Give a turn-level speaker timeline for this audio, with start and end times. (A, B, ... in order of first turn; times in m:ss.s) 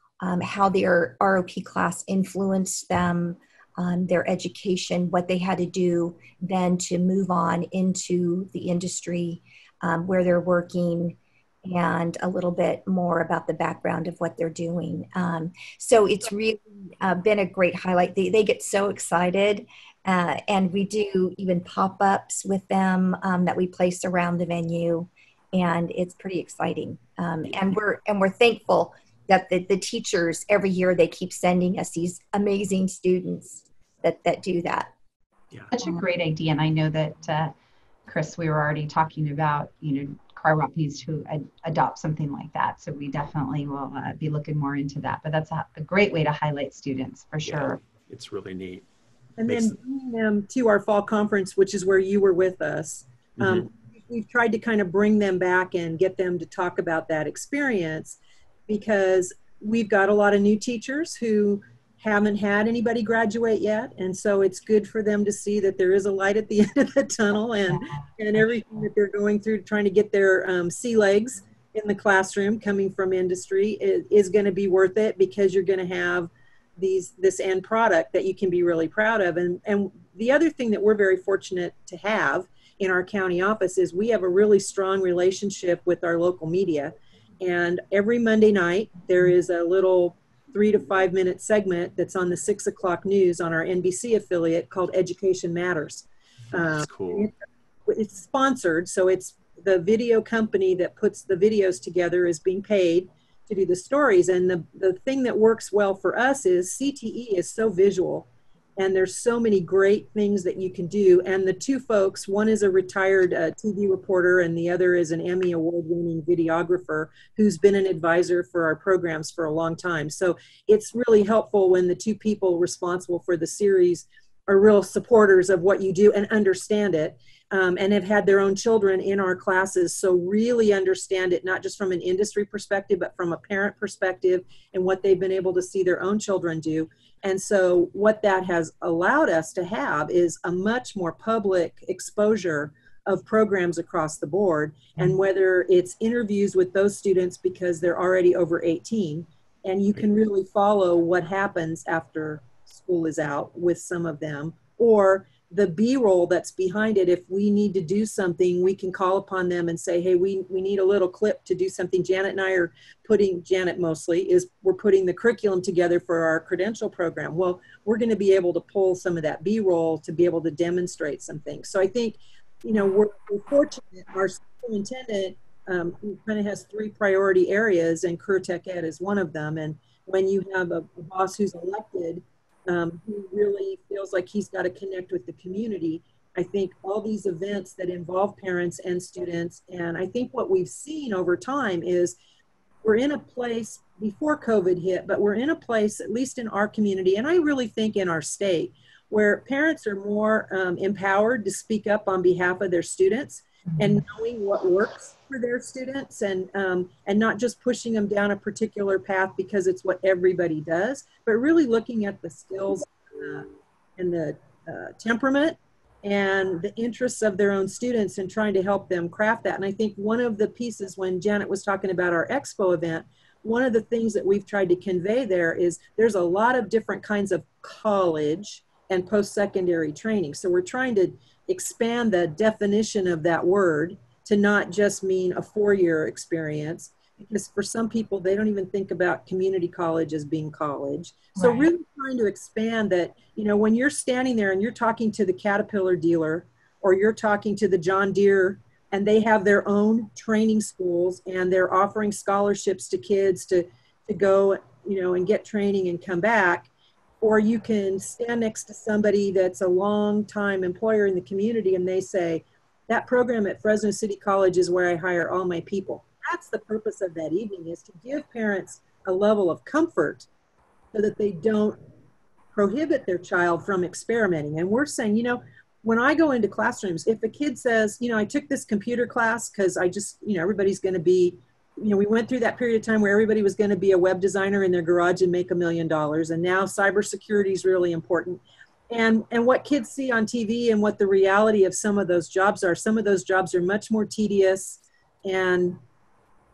0:00.2-0:34.9 A
0:35.7-0:37.5 B
0:38.1-0:47.8 B
0:47.4-0:48.9 C
0:49.4-0:58.2 D
0:49.5-0:49.8 C
0:53.4-0:53.7 C
0:58.7-1:37.3 D
1:07.7-1:08.1 B
1:36.5-1:37.3 C
1:37.9-3:12.2 D
3:12.8-4:16.7 D
4:01.4-4:01.7 B
4:17.2-4:30.3 D
4:30.9-4:31.8 D
4:32.5-4:55.8 D